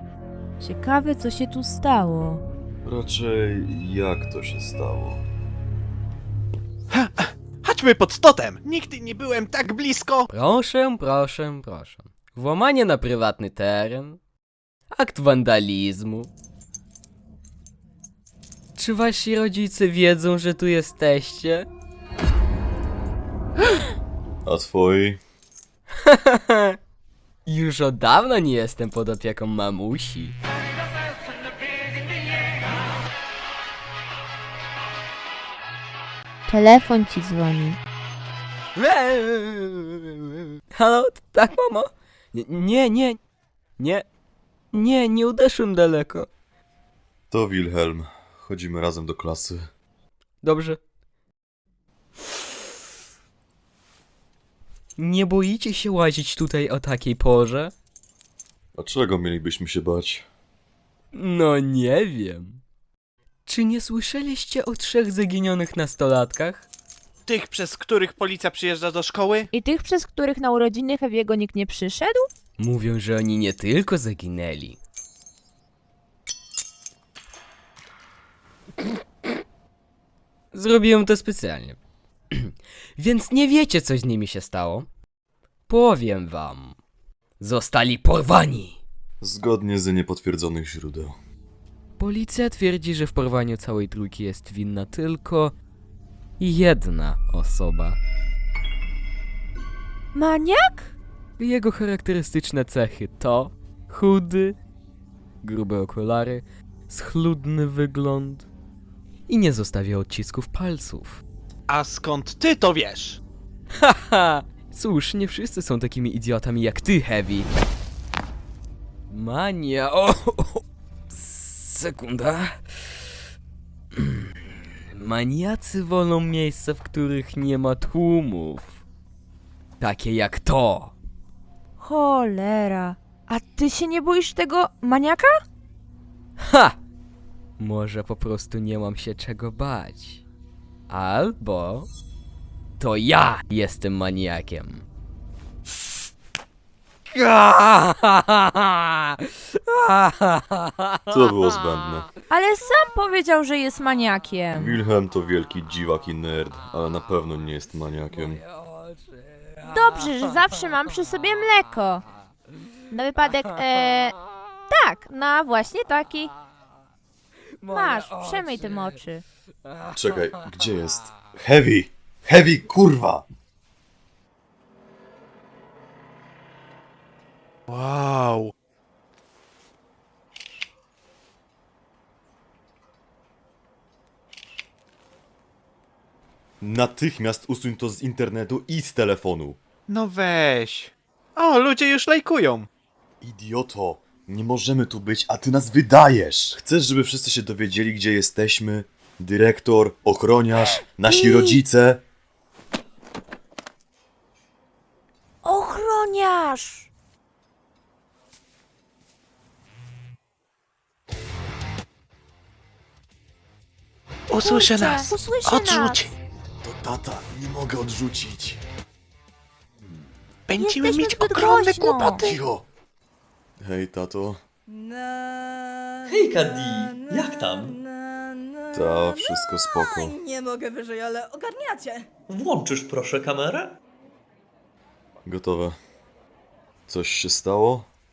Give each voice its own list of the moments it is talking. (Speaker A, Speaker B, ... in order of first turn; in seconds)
Speaker A: 0.6-2.4, 36.5-37.8, 69.5-72.3, 100.1-100.9, 131.8-135.3, 152.3-154.8, 159.6-162.0, 162.9-164.2, 164.7-166.3, 167.7-169.2, 201.0-201.6, 205.4-206.9, 214.4-216.1, 220.6-222.3
Speaker B: 2.8-5.2, 24.4-25.2, 47.3-49.6, 58.7-60.2, 89.2-91.2, 151.1-152.1, 154.5-158.4, 169.9-173.2, 186.6-189.6, 193.2-202.0, 216.6-218.6, 222.2-222.6, 223.6-224.4, 228.7-230.2, 235.2-235.8, 236.9-237.9
Speaker C: 6.9-10.3, 67.3-69.5, 111.7-113.2, 177.7-178.5, 189.9-192.7, 214.3-216.2, 220.5-222.4
Speaker D: 10.3-14.2, 14.9-16.3, 18.8-21.7, 27.4-30.3, 38.8-40.0, 40.7-43.2, 43.8-44.0, 44.7-46.3, 50.4-50.8, 55.0-57.7, 61.1-62.6, 63.5-66.7, 72.6-74.8, 80.5-81.8, 82.3-84.9, 85.7-86.8, 87.4-88.8, 92.0-95.5, 96.4-98.0, 101.4-104.5, 105.4-108.5, 109.3-111.2, 113.8-117.5, 119.1-122.6, 124.9-128.7, 129.8-130.9, 136.4-136.7, 137.6-140.2, 140.9-141.9, 142.8-144.8, 147.1-148.8, 149.6-151.2, 158.6-158.9, 167.6-168.7
Speaker E: 224.7-232.1
Speaker F: 226.0-227.8, 232.3-233.7